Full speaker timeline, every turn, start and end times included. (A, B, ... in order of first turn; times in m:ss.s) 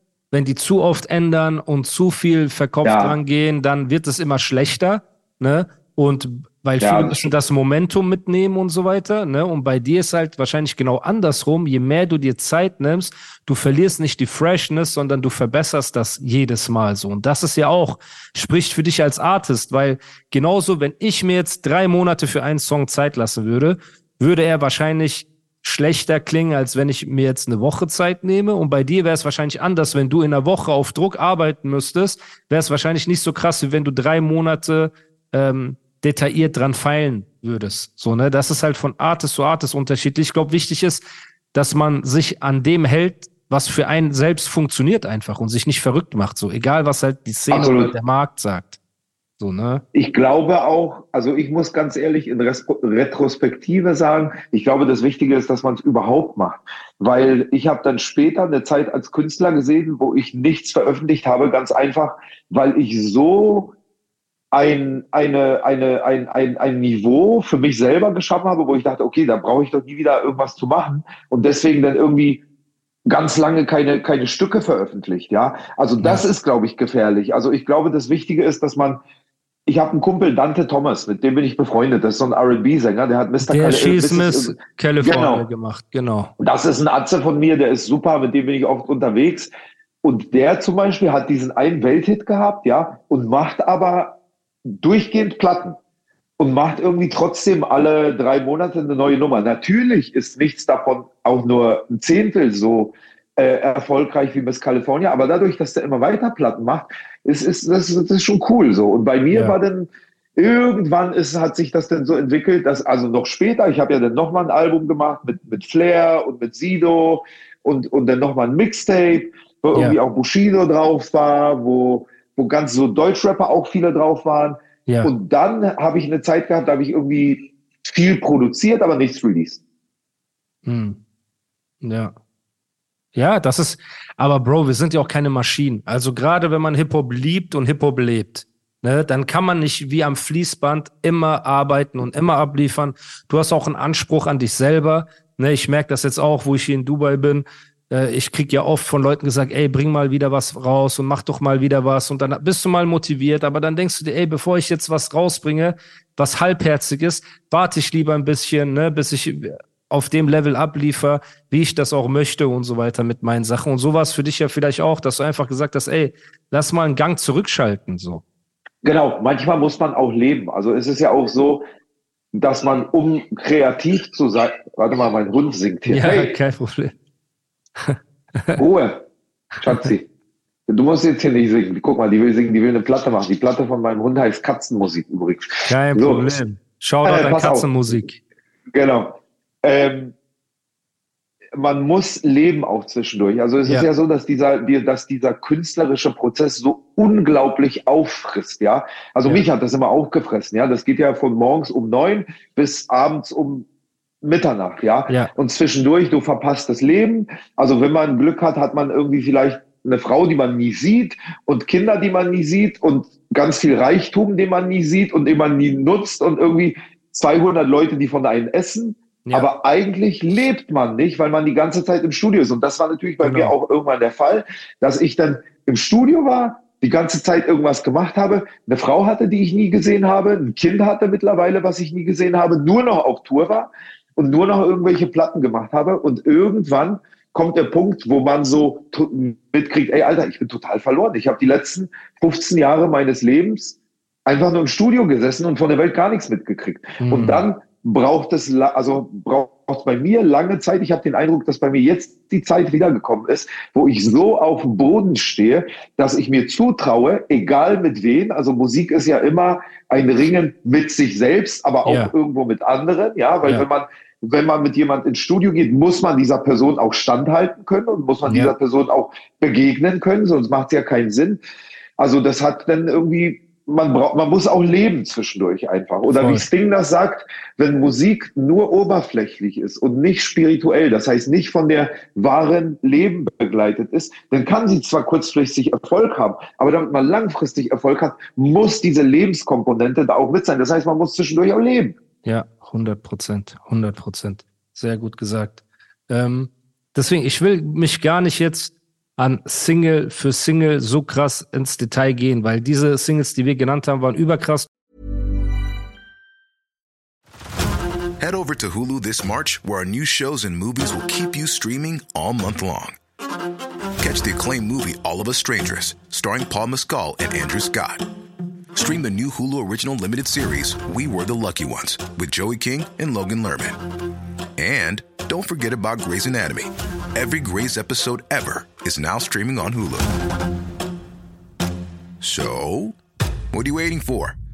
0:00.3-0:48.8 A
0:02.8-0:03.2 B
0:06.8-0:07.3 B
0:47.5-0:47.9 B
0:49.4-0:49.8 A
0:49.9-1:03.7 B
1:04.5-1:12.4 B
1:13.1-1:19.0 B
1:16.0-1:16.2 A
1:19.6-1:25.4 B
1:23.4-1:26.3 A
1:26.4-1:29.5 B
1:30.0-1:35.8 B
1:36.4-2:09.6 B
2:10.6-2:11.0 A
2:11.8-2:12.1 A
2:13.1-2:48.2 A
2:48.8-2:51.6 B
2:52.3-2:56.3 B
2:55.9-2:56.9 A
2:57.8-2:58.6 A
2:58.6-2:59.0 B
2:59.6-2:59.9 A
2:59.6-3:00.1 B
3:00.7-3:06.4 B
3:05.7-3:08.2 A
3:07.0-3:08.0 B
3:08.7-3:10.1 B
3:11.6-3:23.6 B
3:24.2-4:31.4 B
3:43.2-3:43.5 A
4:07.0-4:07.4 A
4:21.8-4:22.1 A
4:28.2-4:28.5 A
4:32.0-4:52.0 B
4:36.1-4:36.5 A
4:52.2-5:04.7 A
5:08.2-5:13.0 C
5:14.0-5:18.1 C
5:18.7-5:23.8 C
5:24.6-5:30.1 C
5:32.2-5:33.0 C
5:33.5-5:34.4 C